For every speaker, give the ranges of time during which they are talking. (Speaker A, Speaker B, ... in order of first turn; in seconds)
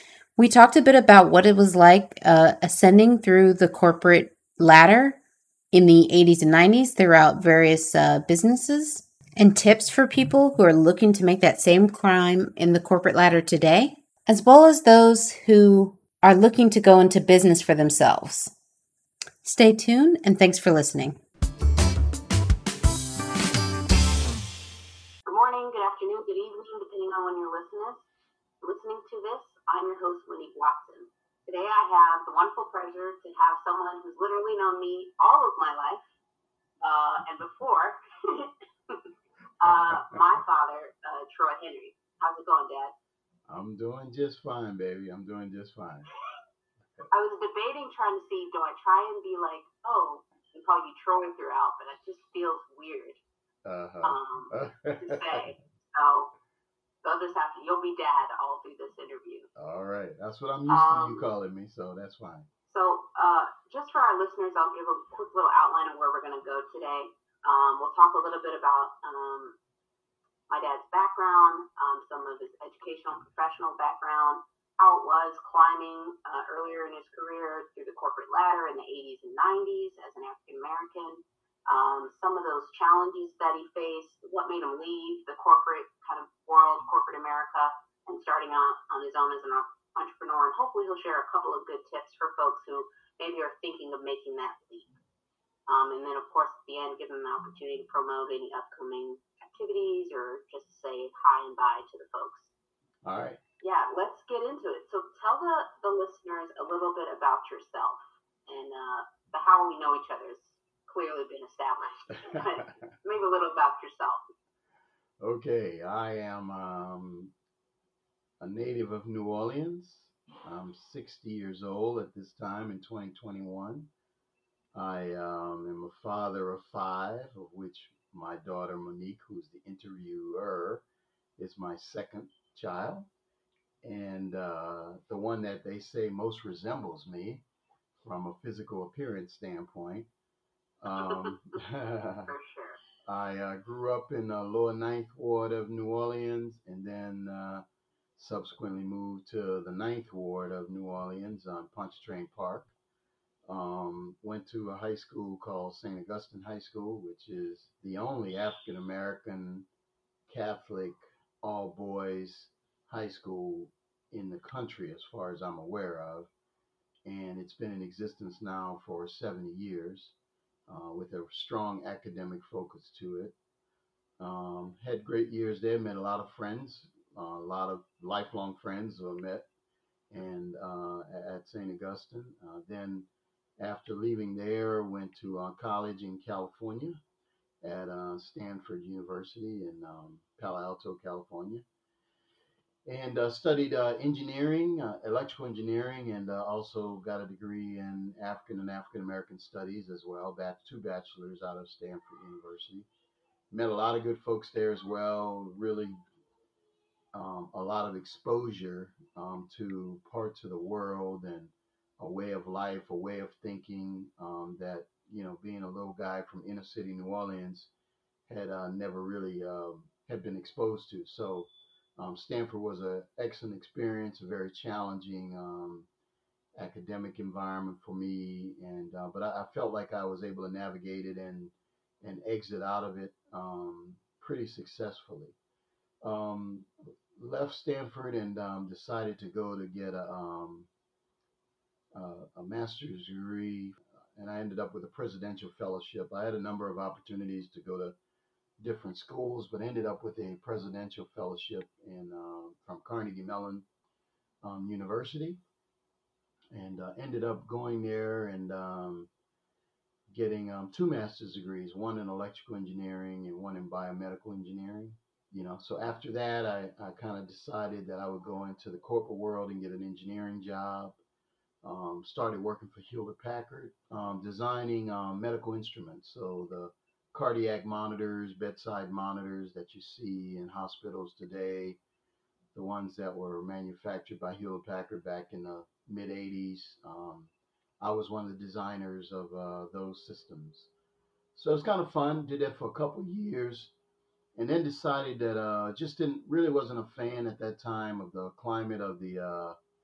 Speaker A: 0.4-5.2, 5.7-18.5, 19.4-21.2
Speaker B: 25.2-28.1, 28.6-36.1, 36.8-39.0, 39.6-42.9, 47.1-53.2, 54.0-56.3, 57.0-59.5, 60.7-61.3, 62.6-69.6, 70.5-94.9, 95.7-102.5, 103.6-114.2, 140.9-141.6, 142.2-142.8
Speaker C: 43.5-46.1, 53.6-55.4, 59.5-62.5, 103.0-103.4, 115.2-117.3, 118.4-123.9, 124.7-130.8, 131.4-133.1, 133.8-137.4, 138.0-140.1, 140.8-142.3, 143.0-147.6, 148.2-152.7, 153.5-159.7, 160.3-166.3, 167.0-170.2, 170.7-173.3, 174.2-179.4, 180.1-183.1, 183.6-187.0, 187.6-191.6, 192.8-202.9, 203.5-206.0, 207.1-217.7, 218.3-225.9, 226.5-235.3, 236.0-240.7, 241.9-247.9, 248.6-253.6, 254.4-255.4, 256.5-259.1, 260.1-271.0, 271.6-281.8, 282.5-290.7, 291.3-293.7, 294.3-299.6